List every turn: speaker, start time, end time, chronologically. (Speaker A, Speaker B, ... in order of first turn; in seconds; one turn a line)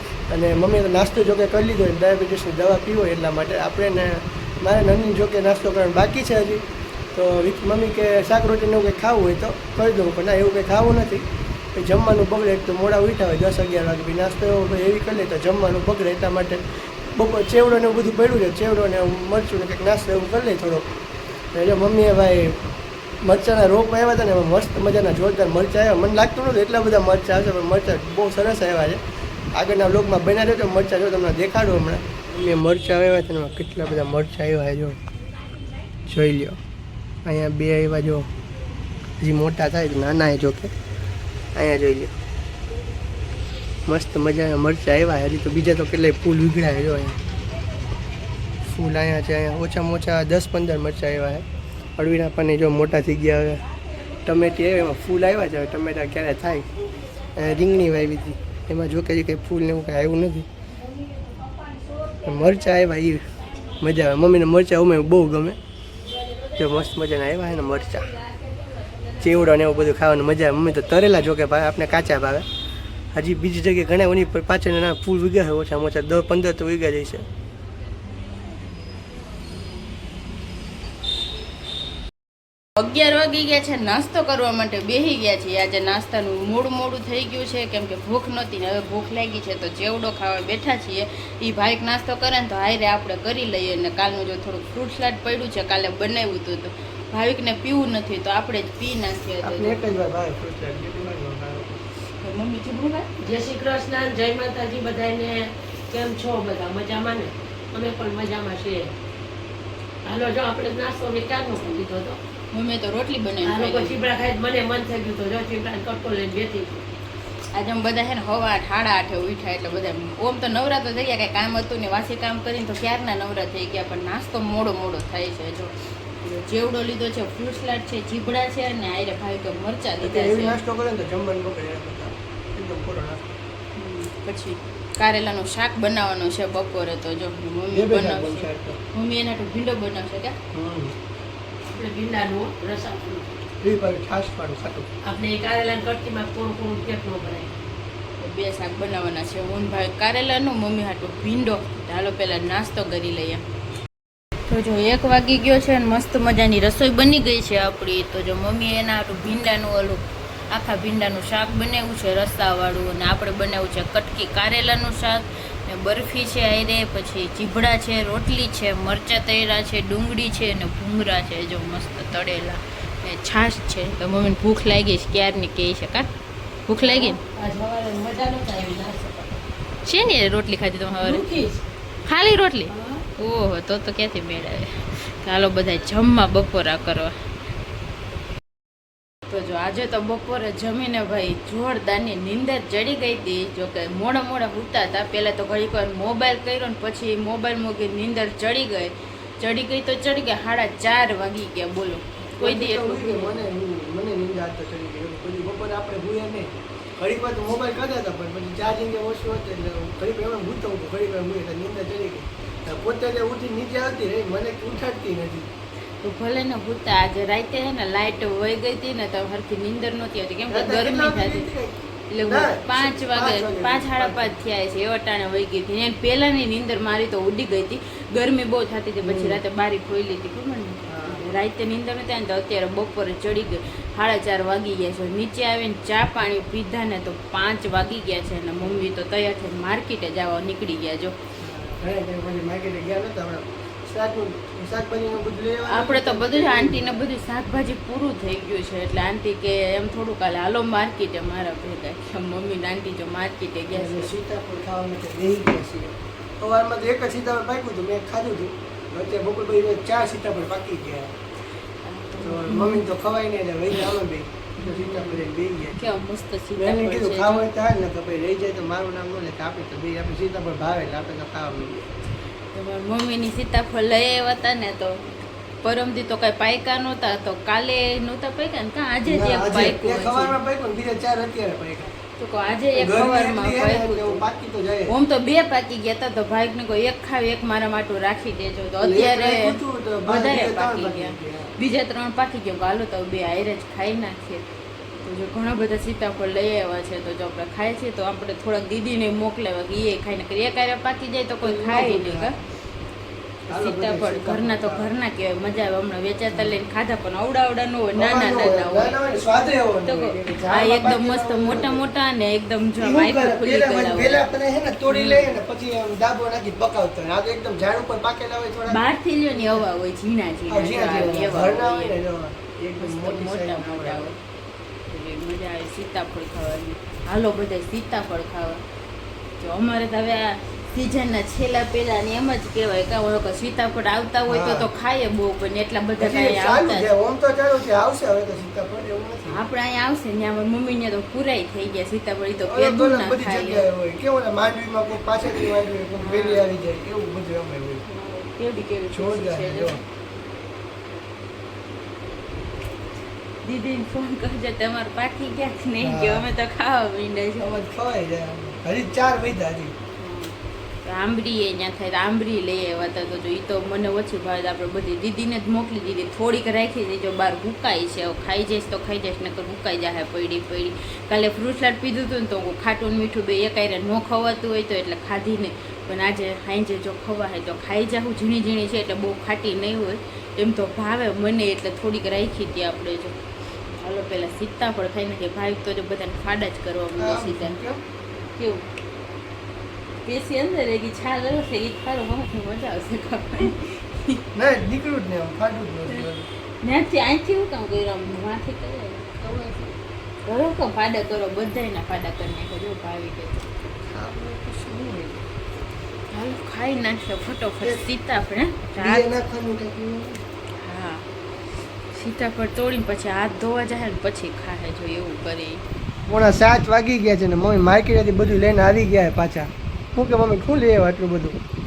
Speaker A: 0.3-20.9
Speaker A: 21.5-22.6
Speaker A: 23.2-29.0
Speaker A: 29.5-35.0
Speaker A: 36.1-36.6
Speaker A: 37.2-38.3
Speaker A: 39.2-40.7
Speaker A: 41.5-42.1
Speaker A: 43.9-47.2
Speaker A: 48.6-51.5
Speaker A: 52.0-53.6
Speaker A: 54.2-56.7
Speaker A: 57.4-60.5
Speaker A: 62.2-65.6
Speaker A: 66.5-68.1
Speaker A: 69.2-72.5
Speaker A: 73.1-77.2
Speaker B: 82.8-99.8
Speaker A: 99.4-101.8
Speaker B: 102.2-103.1
Speaker C: 103.2-108.9
Speaker C: 110.0-112.2
Speaker B: 112.5-114.0
Speaker C: 113.4-116.8
Speaker B: 117.5-130.6
Speaker A: 130.0-133.3
Speaker B: 133.8-140.4
Speaker A: 137.7-138.8
Speaker A: 140.5-140.9
Speaker C: 141.7-143.3
Speaker A: 143.6-144.9
Speaker C: 145.1-147.5
Speaker B: 148.2-153.4
Speaker B: 154.5-176.1
Speaker B: 176.7-177.2
Speaker C: 176.8-179.3
Speaker B: 179.8-181.2
Speaker C: 181.0-181.6
Speaker B: 182.1-187.2
Speaker C: 182.7-183.1
Speaker B: 189.3-203.5
Speaker A: 202.4-215.5
Speaker B: 216.0-221.5
Speaker A: 220.5-224.4
Speaker B: 222.1-241.2
Speaker A: 229.0-229.4
Speaker A: 230.9-231.2
Speaker A: 241.4-247.1
Speaker B: 245.7-254.1
Speaker A: 253.7-261.1
Speaker B: 261.8-262.8
Speaker A: 262.2-265.9
Speaker B: 264.6-265.2
Speaker B: 265.8-267.5
Speaker A: 266.6-271.9
Speaker B: 272.5-275.1
Speaker B: 275.6-280.4
Speaker A: 279.1-281.9
Speaker B: 282.2-284.2
Speaker A: 282.8-284.9
Speaker B: 284.9-294.5
Speaker A: 288.8-291.5
Speaker B: 295.0-302.3
Speaker A: 301.4-302.3
Speaker B: 303.5-314.3
Speaker A: 303.5-304.9
Speaker A: 306.3-306.6
Speaker A: 307.9-311.9
Speaker A: 312.8-318.8
Speaker B: 314.9-315.4
Speaker B: 318.7-322.0
Speaker A: 319.3-319.6
Speaker A: 320.5-324.1
Speaker B: 322.8-324.2
Speaker B: 324.9-328.6
Speaker B: 329.4-336.9
Speaker A: 334.3-334.7
Speaker A: 336.0-339.4
Speaker B: 339.3-343.7
Speaker A: 342.4-347.8
Speaker B: 346.0-346.6
Speaker B: 347.9-349.8
Speaker A: 348.9-349.8
Speaker B: 353.4-357.5
Speaker A: 355.8-356.2
Speaker A: 357.4-359.8
Speaker B: 360.0-383.2
Speaker B: 383.8-387.6
Speaker A: 387.0-387.8
Speaker B: 388.4-388.6
Speaker B: 390.1-394.2
Speaker A: 394.4-396.3
Speaker B: 396.6-399.1
Speaker A: 399.2-399.8
Speaker B: 400.3-403.5
Speaker A: 403.9-405.2
Speaker B: 406.1-409.1
Speaker A: 408.8-410.2
Speaker B: 410.6-411.1
Speaker B: 411.9-415.6
Speaker A: 416.1-421.4